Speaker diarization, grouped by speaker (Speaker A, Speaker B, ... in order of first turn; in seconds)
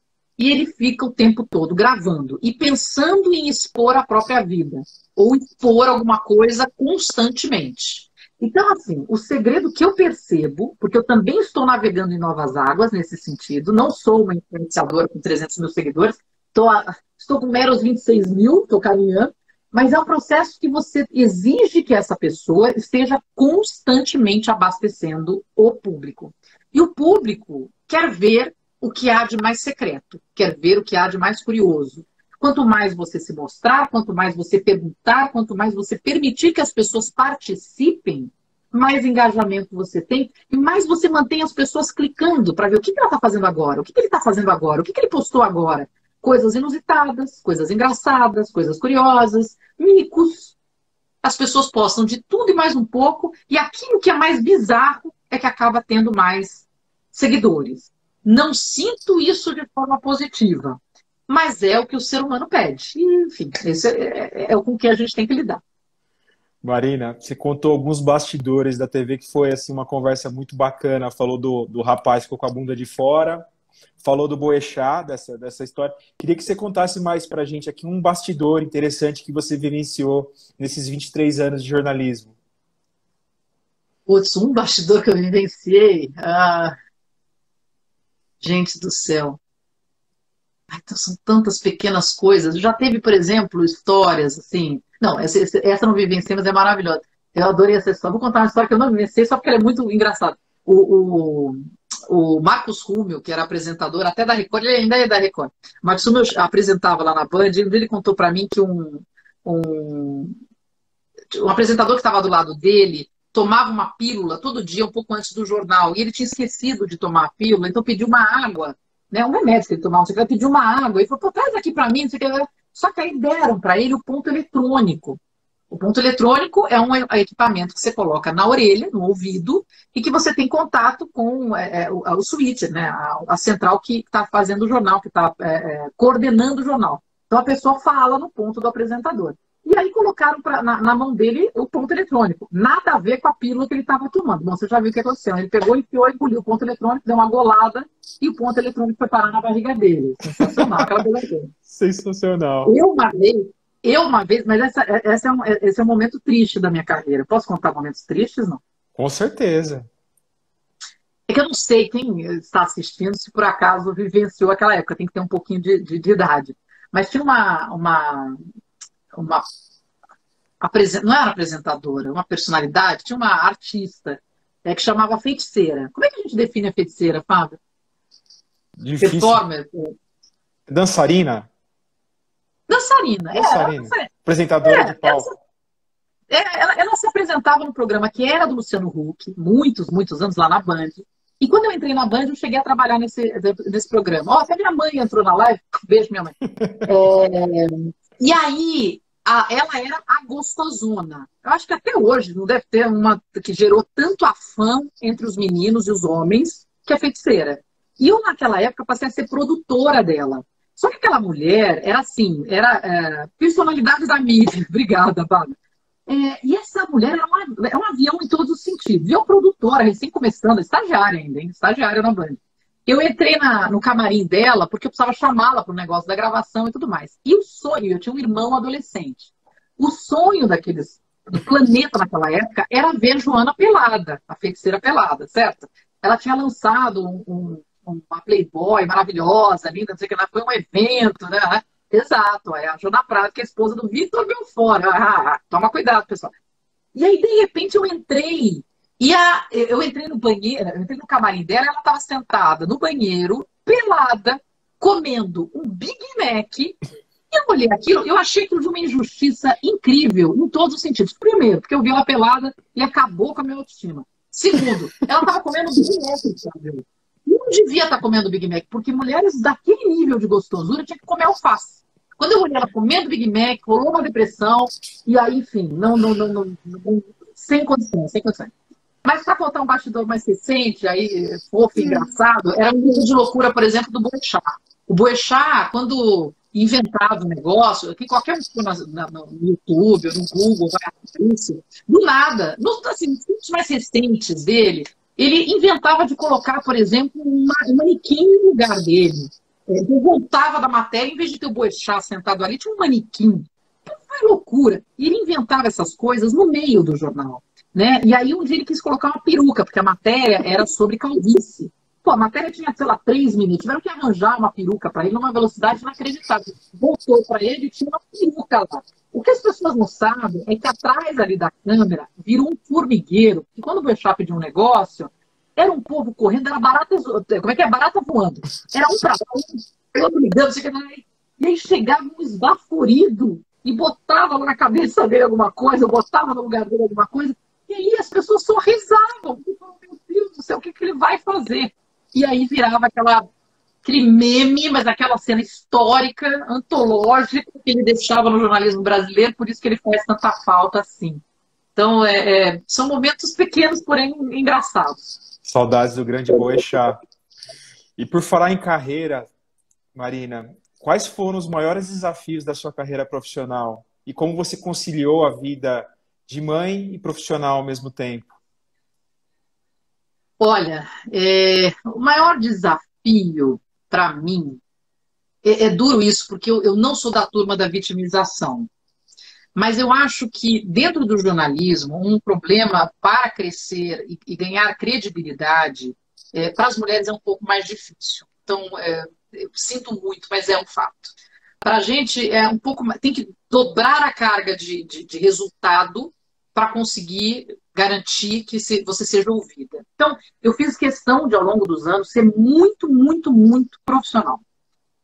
Speaker A: 0.4-50.5, 51.2-65.6, 84.1-86.7, 88.4-89.4, 90.7-110.4, 111.3-125.2, 125.7-151.5, 152.7-158.6, 161.3-168.4, 169.1-169.5, 170.6-177.6, 179.0-179.9, 182.7-184.1, 184.6-185.4, 186.3-246.3, 246.9-256.8, 257.3-278.5, 279.0-343.3, 343.8-351.2, 351.8-355.1, 370.4-374.6, 375.4-378.7, 379.6-404.4
Speaker B: 66.6-73.5, 74.0-82.3, 150.4-150.9, 151.7-152.7, 159.0-159.9, 178.8-179.4, 180.7-181.5, 183.3-185.3, 355.4-357.0, 358.0-359.3, 359.9-368.3